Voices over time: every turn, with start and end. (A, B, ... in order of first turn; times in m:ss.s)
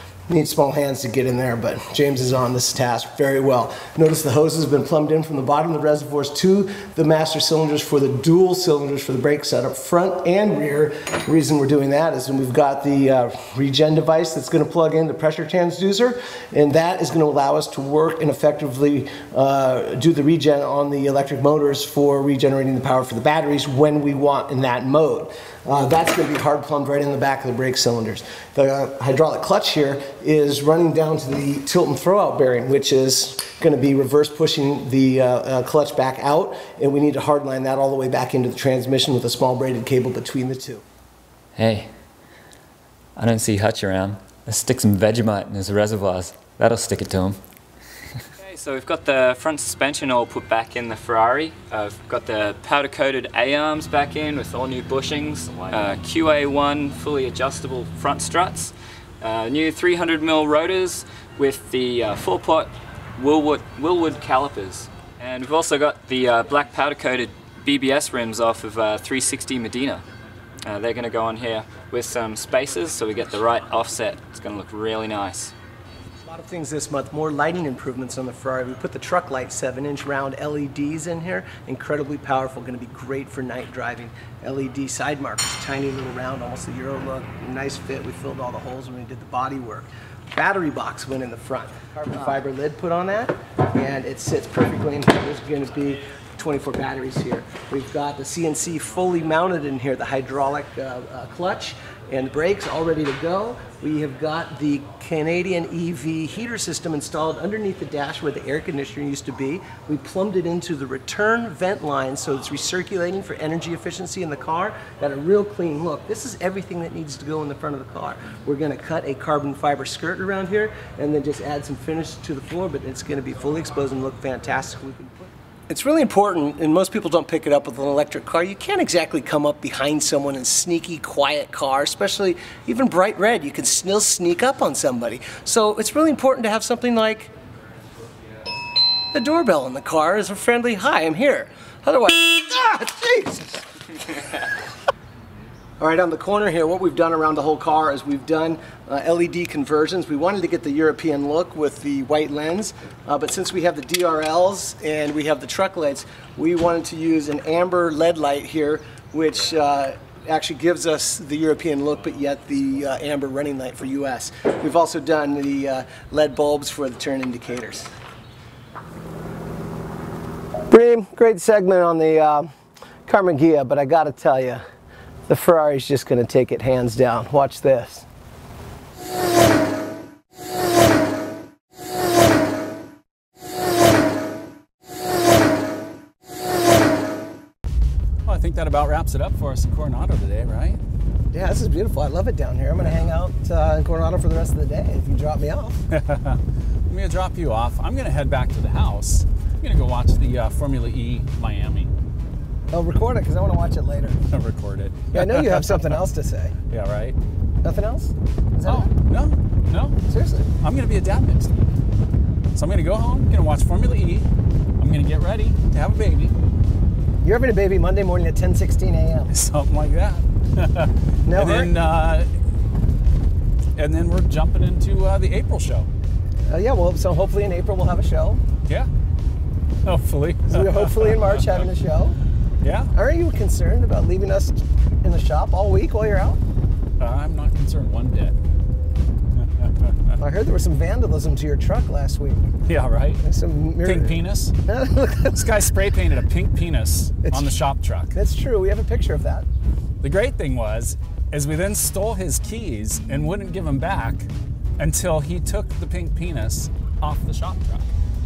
0:00.3-0:40.8 A
0:41.6-0:41.9 B
0:43.2-0:47.4 B
0:48.4-1:10.0 C
1:10.6-1:15.5 C
1:16.2-2:17.3 A
2:19.1-2:23.6 A
2:25.8-2:47.9 A
2:50.7-2:52.5 A
2:53.1-2:54.6 A
2:55.3-2:58.0 A
3:08.2-3:10.8 D
3:11.3-3:15.8 A
3:15.9-3:21.9 D
3:22.7-3:24.2 A
3:24.3-3:26.0 D
3:25.1-3:26.5 A
3:26.7-3:27.2 D
3:27.6-3:28.9 A
3:28.6-3:30.0 D
3:30.1-3:30.5 A
3:30.6-3:31.7 D
3:32.5-3:34.3 D
3:34.8-3:36.3 D
3:37.2-3:39.3 A
3:39.3-3:42.3 D
3:41.2-3:41.7 A
3:43.8-3:45.9 D
3:46.5-3:48.4 A
3:49.8-3:51.7 D
3:50.5-3:52.2 A
3:52.6-3:52.9 D
3:52.9-3:56.4 A
3:57.0-3:58.3 D
3:59.3-4:00.1 D
4:00.2-4:02.5 A
4:02.7-4:03.2 D
4:03.2-4:05.6 A
4:03.8-4:04.5 D
4:05.3-4:08.1 D
4:07.2-4:07.5 A
4:08.1-4:09.4 A
4:10.0-4:17.9 D